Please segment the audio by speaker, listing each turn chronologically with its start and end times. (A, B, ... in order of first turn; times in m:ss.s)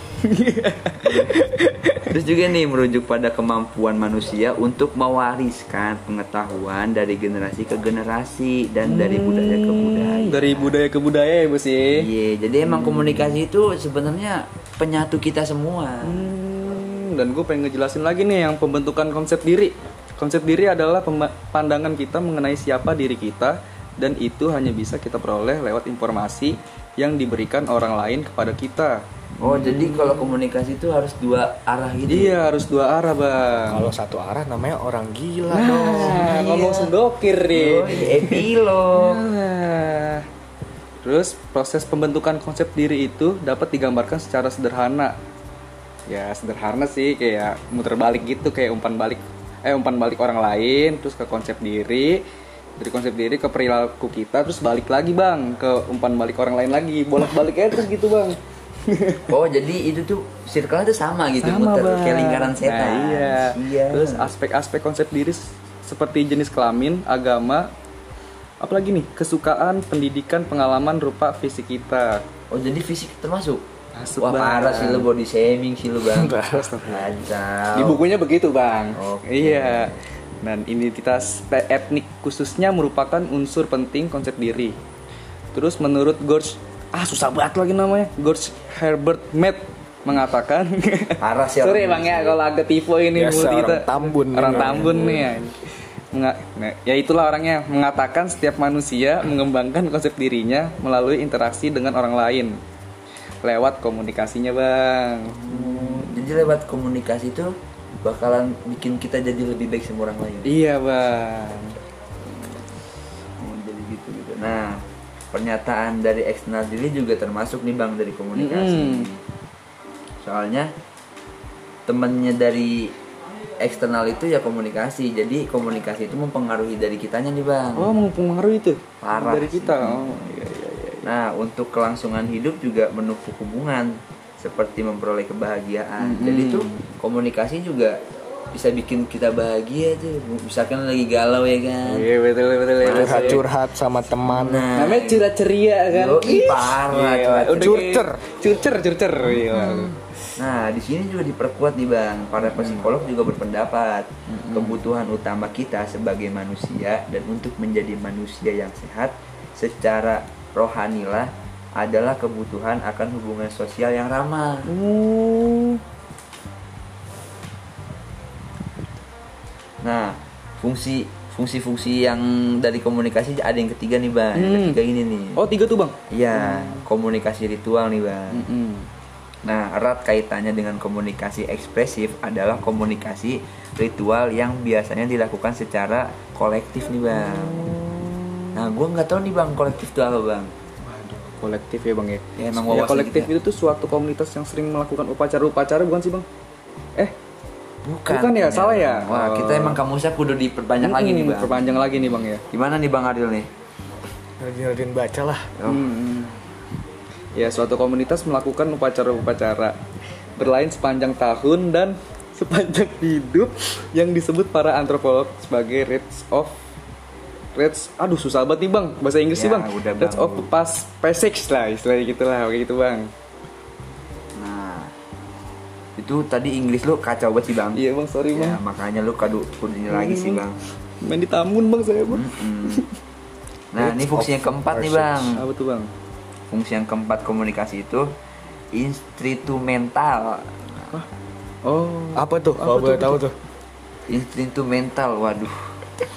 0:00.2-0:02.0 A
0:02.1-0:10.8 B
0:08.8-0:12.1 A
0:11.9-0:16.3 B
0:12.6-0:13.4 A
0:16.0-0:30.4 A
0:29.4-0:32.4 B
0:32.1-0:33.9 A
0:33.7-0:36.2 C
0:35.5-0:40.2 A
0:35.6-0:36.9 B
0:37.5-0:39.2 B
0:41.0-0:45.2 A
0:46.1-0:52.2 A
0:52.8-0:59.2 A
0:59.3-1:04.3 B
1:01.4-1:07.7 A
1:08.6-1:12.2 A
1:12.5-1:13.6 B
1:13.9-1:15.1 A
1:14.2-1:18.0 B
1:16.1-1:16.8 C
1:16.5-1:17.0 A
1:17.7-1:24.8 A
1:18.9-1:20.0 B
1:25.5-1:35.6 A
1:31.2-1:32.4 B
1:33.1-1:35.4 C
1:36.1-1:42.6 A
1:43.4-1:46.3 A
1:45.5-1:47.5 B
1:48.0-1:50.6 B
1:50.4-1:51.8 A
1:53.4-1:59.2 B
1:58.4-1:59.1 A
2:00.2-2:00.7 B
2:01.9-2:02.9 B
2:03.6-2:07.9 B
2:07.8-2:11.1 A
2:09.0-2:10.4 B
2:11.0-2:18.0 B
2:16.0-2:16.8 A
2:18.5-2:22.0 B
2:21.8-2:23.5 A
2:22.8-2:23.4 B
2:22.9-2:24.7 C
2:24.3-2:25.3 B
2:24.7-2:30.0 A
2:25.9-2:27.9 B
2:27.6-2:28.2 C
2:29.2-2:44.7 B
2:32.4-2:32.9 A
2:34.4-2:34.8 A
2:44.6-2:45.8 A
2:49.8-2:55.4 B
2:54.3-2:54.8 A
2:55.3-2:56.8 A
2:56.1-2:58.5 B
2:58.3-2:58.9 A
2:59.4-3:07.7 B
3:07.1-3:08.7 A
3:08.5-3:10.5 B
3:10.8-3:16.2 A
3:12.4-3:13.3 B
3:17.8-3:23.5 B
3:18.1-3:19.8 A
3:20.8-3:22.4 A
3:24.4-3:25.5 C
3:25.6-3:25.9 B
3:25.6-3:26.4 A
3:27.3-3:29.8 A
3:30.4-3:36.6 A
3:37.5-3:43.1 A
3:39.3-3:40.5 B
3:44.4-3:44.9 B
3:46.0-3:47.8 B
3:47.7-3:48.6 A
3:48.3-3:50.6 B
3:49.9-3:50.4 A
3:51.0-3:52.9 A
3:52.0-3:52.8 B
3:53.7-3:55.4 B
3:53.8-3:55.3 C
3:55.3-3:55.9 A
3:56.5-3:58.1 B
3:58.7-4:01.0 B
4:01.6-4:03.2 A
4:02.1-4:03.4 C
4:04.1-4:05.7 B